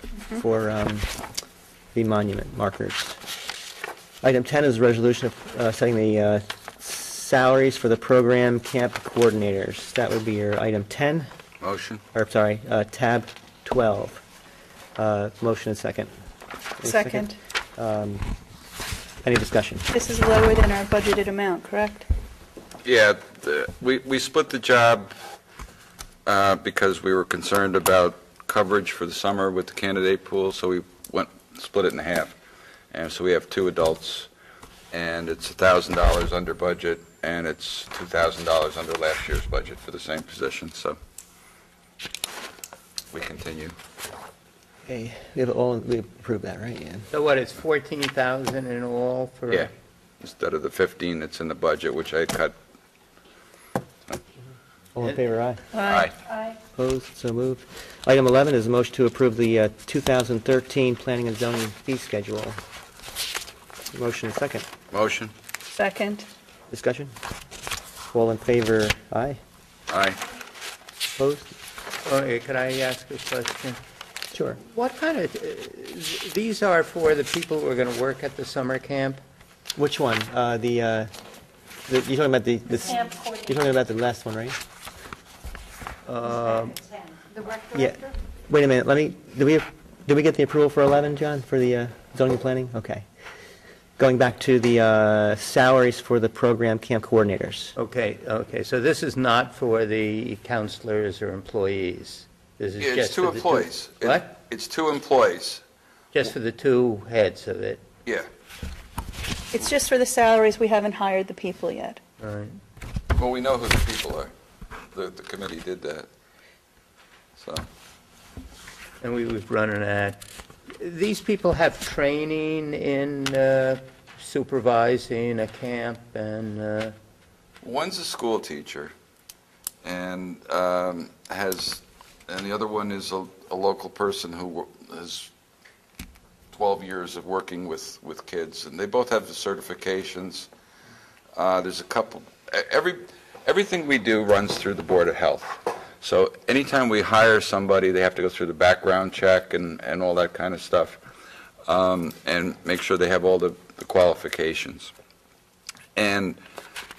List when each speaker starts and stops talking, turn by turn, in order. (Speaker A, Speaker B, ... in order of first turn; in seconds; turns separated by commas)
Speaker A: 0.4-1.1, Speaker A: 1.9-3.2, Speaker A: 4.2-11.3, Speaker B: 11.6-12.0, Speaker A: 12.1-14.2, Speaker A: 15.0-16.1, Speaker A: 16.8-18.3, Speaker C: 16.8-17.4, Speaker A: 19.2-19.9, Speaker C: 19.9-22.1, Speaker B: 22.8-25.1, Speaker B: 26.3-32.4, Speaker B: 32.9-34.3, Speaker B: 34.9-41.0, Speaker B: 43.1-43.8, Speaker A: 44.9-47.1, Speaker D: 47.1-49.7, Speaker B: 50.2-52.6, Speaker A: 55.0-55.6, Speaker C: 55.7-56.3, Speaker B: 55.8-56.1, Speaker A: 56.8-62.6, Speaker A: 63.9-64.7, Speaker B: 64.9-65.3, Speaker C: 65.8-66.3, Speaker A: 66.7-67.1, Speaker A: 68.1-69.4, Speaker B: 69.9-70.2, Speaker A: 71.2-71.5, Speaker D: 72.0-73.8, Speaker A: 74.3-74.6, Speaker D: 74.6-79.2, Speaker A: 79.8-81.1, Speaker A: 81.9-84.6, Speaker D: 86.0-86.8, Speaker A: 87.7-93.1, Speaker A: 94.0-97.8, Speaker D: 97.8-104.3, Speaker B: 102.8-105.6, Speaker D: 106.1-107.8, Speaker C: 109.5-112.0, Speaker D: 112.2-112.6, Speaker B: 113.2-114.3, Speaker B: 114.9-116.1, Speaker B: 117.4-117.7, Speaker D: 119.0-126.9, Speaker B: 127.6-128.9, Speaker B: 129.8-135.3, Speaker B: 136.5-140.5, Speaker B: 141.3-151.0, Speaker B: 151.7-154.9, Speaker B: 156.0-156.4